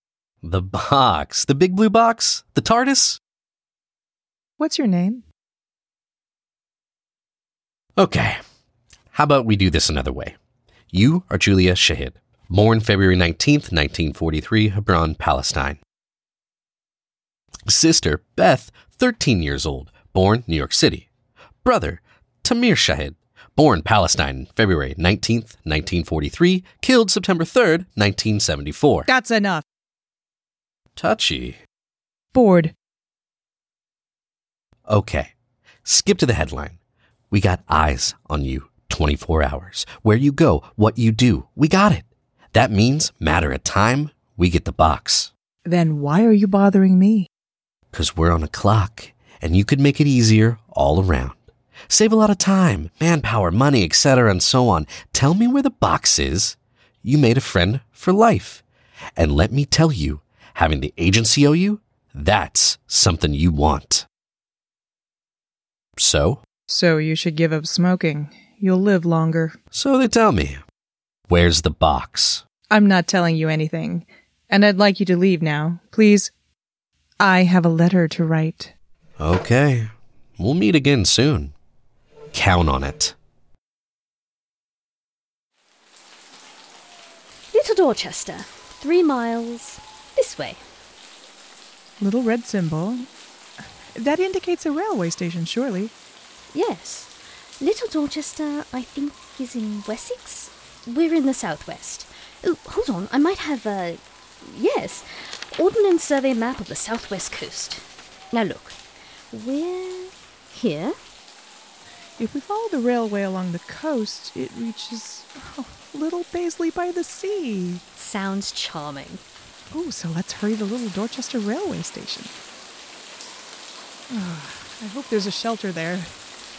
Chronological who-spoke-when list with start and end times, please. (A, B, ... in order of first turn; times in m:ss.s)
0:00.4-0:03.2 A
0:04.6-0:05.2 B
0:08.0-0:08.4 A
0:09.1-0:10.4 A
0:10.9-0:15.8 A
0:17.7-0:21.1 A
0:21.6-0:29.1 A
0:29.1-0:29.6 B
0:31.0-0:31.6 A
0:32.3-0:32.7 B
0:34.9-0:35.3 A
0:35.8-0:36.8 A
0:37.3-0:45.3 A
0:45.7-0:47.3 B
0:47.9-0:58.6 A
0:59.2-1:04.1 A
1:06.0-1:06.4 A
1:06.7-1:09.6 B
1:09.7-1:10.6 A
1:11.3-1:12.4 A
1:12.7-1:16.3 B
1:17.2-1:18.7 B
1:19.2-1:21.5 A
1:22.3-1:23.2 A
1:27.5-1:30.6 C
1:32.0-1:33.1 B
1:34.0-1:35.9 B
1:36.5-1:48.8 C
1:49.3-1:51.0 C
1:52.2-1:57.8 B
1:58.0-1:59.2 C
1:59.7-2:02.3 B
2:04.1-2:06.2 B